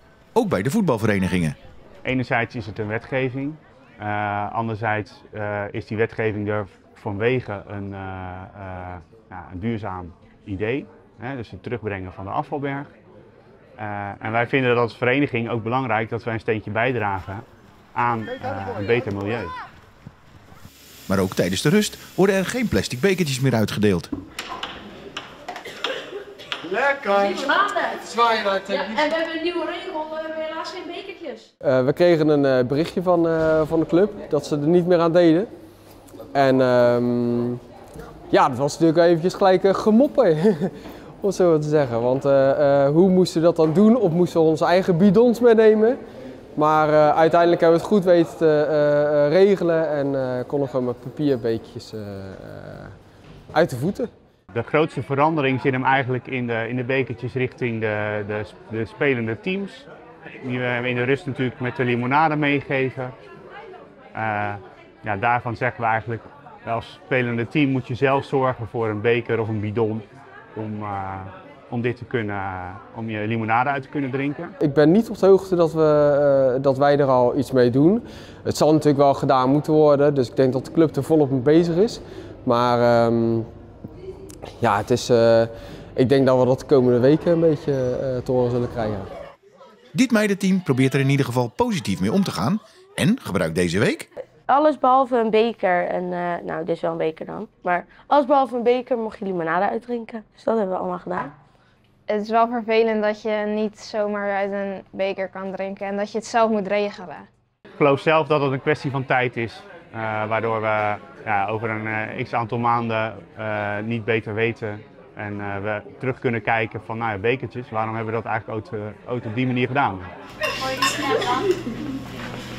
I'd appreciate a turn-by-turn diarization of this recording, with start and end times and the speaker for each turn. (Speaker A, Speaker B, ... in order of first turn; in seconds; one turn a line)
Speaker A: 0.3-1.6
Speaker B: 2.0-12.9
Speaker B: 13.8-19.5
Speaker A: 21.1-24.1
Speaker C: 26.8-27.4
Speaker D: 27.1-31.4
Speaker C: 28.1-28.9
Speaker C: 31.6-35.5
Speaker C: 36.3-37.6
Speaker C: 38.3-46.0
Speaker C: 46.5-52.9
Speaker C: 53.5-54.1
Speaker B: 54.5-59.9
Speaker B: 60.4-63.1
Speaker B: 64.1-74.5
Speaker C: 74.6-83.5
Speaker C: 84.6-89.1
Speaker A: 89.9-94.1
Speaker E: 94.5-101.3
Speaker F: 102.1-107.3
Speaker B: 107.8-120.1
Speaker D: 120.8-121.5